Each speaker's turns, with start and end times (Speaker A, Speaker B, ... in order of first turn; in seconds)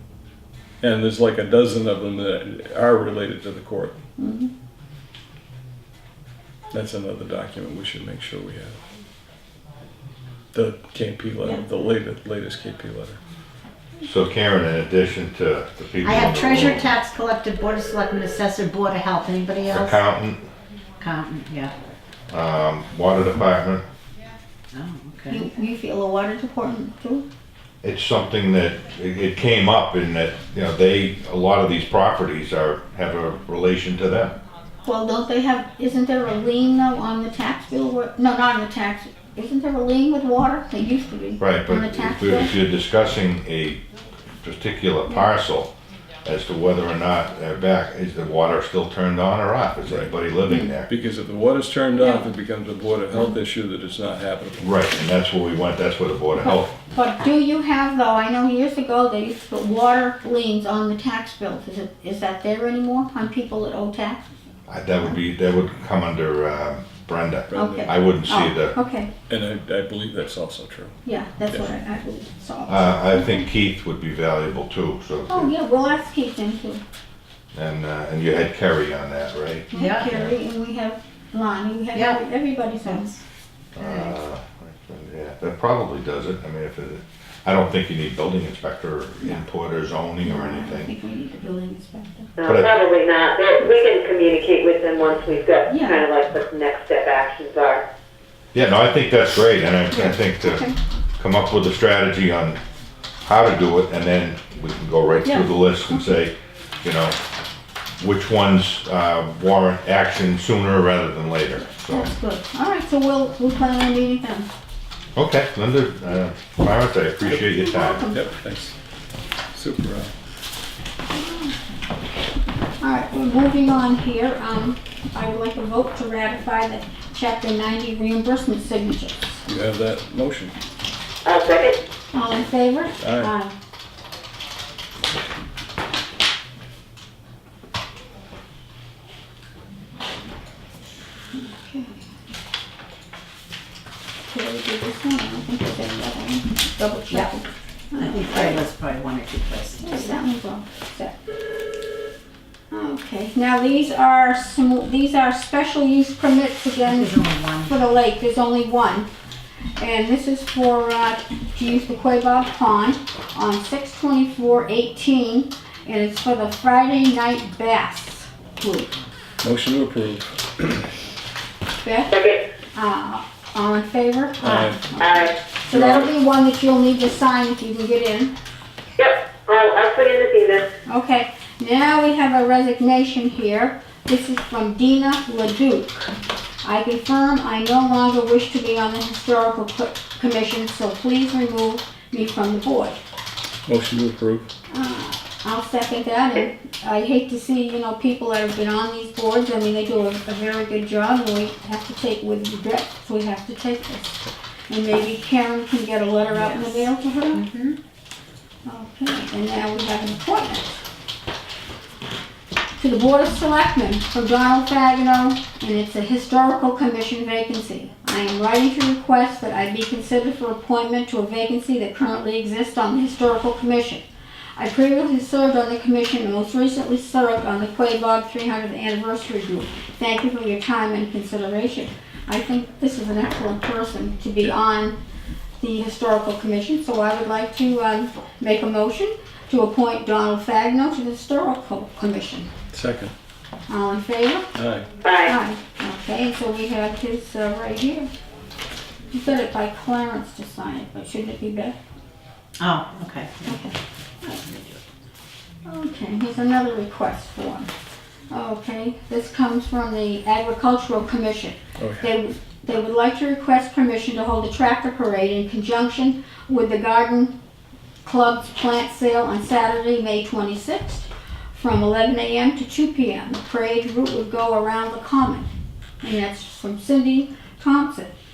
Speaker A: 0.8-3.9, 6.7-8.8, 10.5-13.2, 50.9-54.8, 67.5-67.9, 69.3-71.0, 71.5-71.8, 118.1-118.7, 119.5-120.1, 129.4-130.5, 133.0-133.3, 169.4-170.9, 174.4-174.8, 175.7-176.1, 193.7-194.5, 242.7-243.1, 244.5-244.8, 261.8-262.1
Speaker B: 4.2-4.5, 25.3-27.2, 34.8-42.5, 50.5-50.7, 52.0-52.3, 56.4-64.3, 67.5-69.1, 71.0-73.4, 75.3-76.8, 79.7-83.1, 90.2-92.3, 95.7-96.0, 99.9-100.8, 105.2-106.0, 111.9-114.5, 117.2-118.2, 121.1-121.5, 122.8-129.4, 132.1-133.5, 141.3-142.0, 144.3-148.6, 149.8-151.1, 152.7-157.1, 157.7-159.1, 159.8-168.9, 171.8-172.1, 172.7-178.3, 180.8-193.0, 194.7-207.4, 208.6-210.8, 212.8-224.0, 224.6-235.0, 235.6-242.5, 243.7-244.4, 245.2-248.1, 249.1-251.7, 253.4-254.4, 255.7-257.7, 258.3-267.3, 268.0-275.5, 276.0-278.1
Speaker C: 14.0-16.9, 19.7-20.5, 22.3-23.8, 27.8-34.4, 41.4-43.8, 44.4-45.7, 46.2-50.9, 54.6-56.7, 64.7-68.8, 72.7-75.5, 77.5-80.3, 83.8-90.9, 92.5-92.7, 98.5-100.7, 101.2-102.6, 103.2-107.2, 108.0-112.1, 115.2-118.0
Speaker D: 16.0-20.0, 21.0-21.7, 24.7-25.4, 79.7-80.3, 81.9-82.2, 82.8-83.2, 83.7-84.2, 147.1-147.3, 147.9-150.2, 156.9-157.7, 206.4-207.8, 252.6-253.7, 254.2-254.8
Speaker E: 92.4-97.8, 131.2-131.8, 172.1-172.4, 175.0-175.3, 179.0-180.7, 245.0-245.3